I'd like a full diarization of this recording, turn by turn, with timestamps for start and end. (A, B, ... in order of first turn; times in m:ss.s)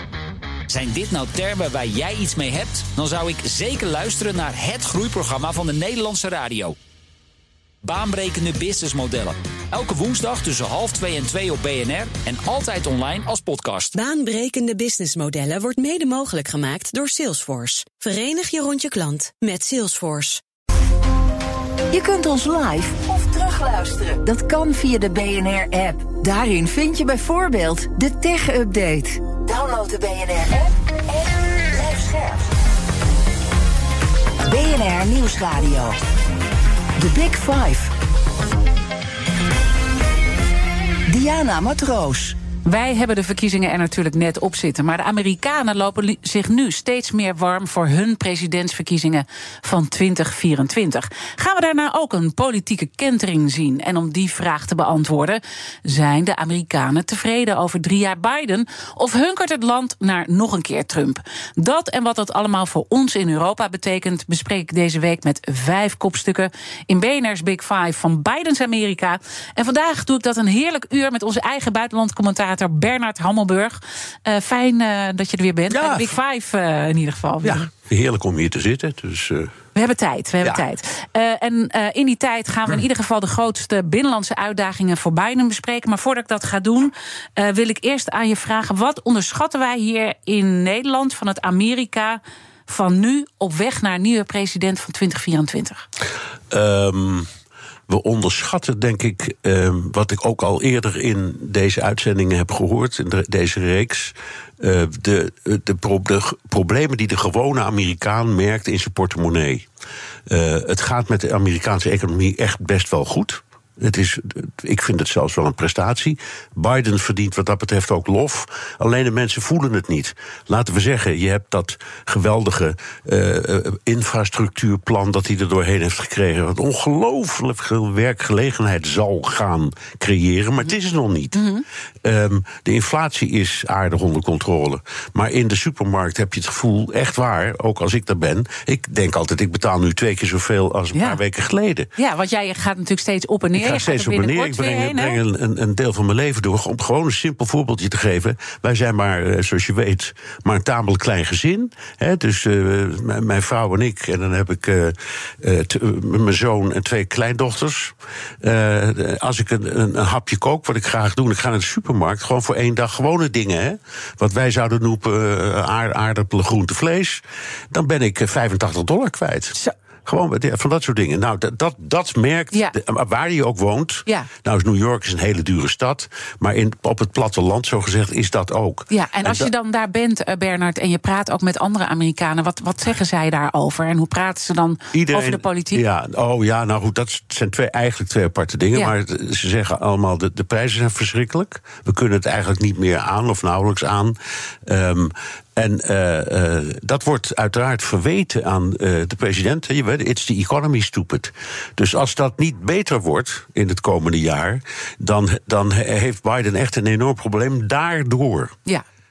0:00.7-0:06.8 A
0:07.8-0:13.9 A
0:14.0-0:20.4 B
0:21.9-0:32.5 C
0:34.4-0:36.0 C
0:37.0-0:37.9 C
0:41.1-0:42.4 C
0:42.6-1:17.7 D
1:15.7-1:16.2 E
1:17.4-1:19.5 E
1:19.8-1:35.8 D
1:36.5-1:37.3 E
1:37.9-1:49.7 E
1:50.3-2:11.5 E
2:11.4-2:11.6 D
2:12.0-2:21.9 E
2:20.9-2:21.2 D
2:22.0-2:25.2 D
2:23.5-2:59.5 E
2:58.9-3:05.8 D
3:04.9-3:28.6 E